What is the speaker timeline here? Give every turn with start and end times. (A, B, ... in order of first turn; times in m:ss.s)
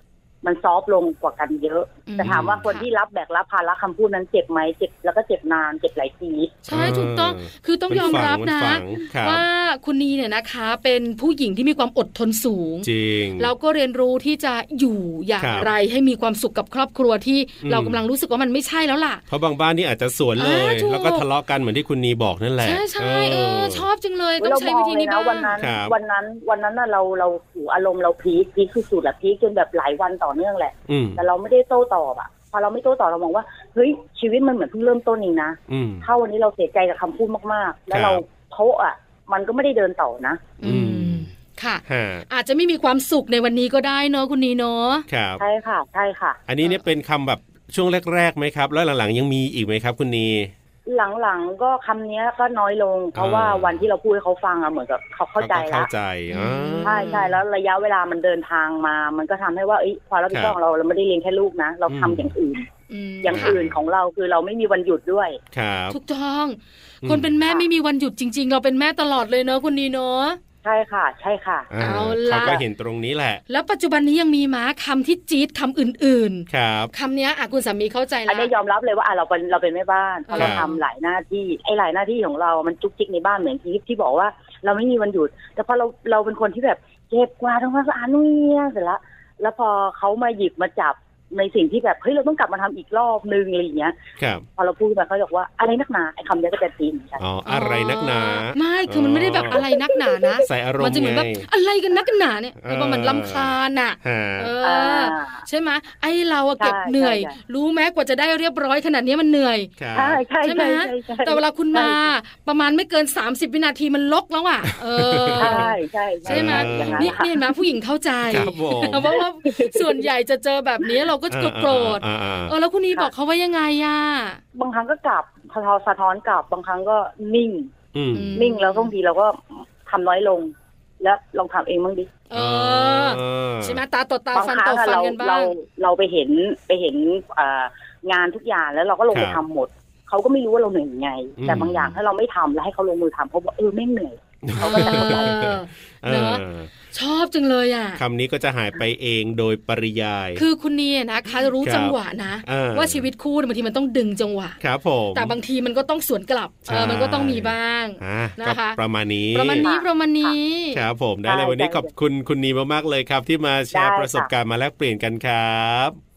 0:00.4-0:06.6 A
0:02.1-0:02.9 B
0:02.2-0:02.7 C
0:06.6-0:19.2 B
0:06.7-0:09.4 C
0:07.9-0:08.3 A
0:12.8-0:13.5 C
0:15.4-0:15.7 C
0:17.6-0:18.0 C
0:19.3-0:23.8 C
0:20.4-0:21.2 B
0:22.6-0:25.6 B
0:24.4-0:40.5 A
0:25.6-0:25.9 C
0:30.9-0:31.2 C
0:35.7-0:36.1 C
0:37.9-0:38.2 C
0:40.6-0:45.0 B
0:40.6-0:41.3 C
0:41.9-0:42.2 C
0:45.1-0:45.4 C
0:45.4-0:46.4 A
0:46.5-0:50.5 C
0:50.9-0:55.9 A
0:53.1-0:53.8 C
0:55.4-0:57.2 C
0:56.3-0:57.4 B
0:56.8-1:02.7 A
1:00.3-1:00.6 C
1:01.9-1:02.3 C
1:02.9-1:03.6 B
1:03.2-1:05.4 A
1:03.3-1:03.8 C
1:05.5-1:06.0 C
1:05.9-1:10.4 B
1:07.0-1:07.3 C
1:10.6-1:11.7 A
1:11.7-1:13.4 C
1:11.8-1:12.6 B
1:13.5-1:18.5 B
1:16.5-1:16.9 C
1:18.3-1:34.0 A
1:20.3-1:20.8 B
1:20.3-1:20.6 C
1:34.2-1:34.4 C
1:34.6-1:37.2 A
1:37.2-1:39.6 C
1:37.4-1:49.7 B
1:39.5-1:40.4 A
1:40.5-1:41.4 C
1:42.6-1:44.5 C
1:44.6-1:45.4 A
1:46.6-1:47.3 A
1:49.8-1:50.2 C
1:49.9-1:52.0 A
1:50.4-1:55.7 B
1:55.0-1:55.7 C
1:55.4-1:57.3 A
1:56.2-1:57.2 C
1:56.2-2:04.4 B
1:58.3-1:59.2 C
1:59.0-2:00.0 A
2:01.3-2:02.5 C
2:04.5-2:07.7 A
2:07.9-2:08.3 C
2:08.1-2:08.9 B
2:08.3-2:12.1 A
2:12.3-2:15.6 B
2:12.3-2:13.8 C
2:14.3-2:25.3 A
2:19.1-2:19.4 C
2:21.4-2:22.0 C
2:24.5-2:26.7 C
2:24.6-2:28.0 B
2:28.0-2:30.4 C
2:30.4-2:34.6 B
2:31.6-2:33.0 C
2:34.6-2:35.3 C
2:35.1-2:38.8 B
2:36.6-2:39.7 C
2:39.3-2:40.8 B
2:39.6-2:40.3 A
2:40.7-2:46.0 C
2:41.2-2:41.9 A
2:43.7-2:44.3 A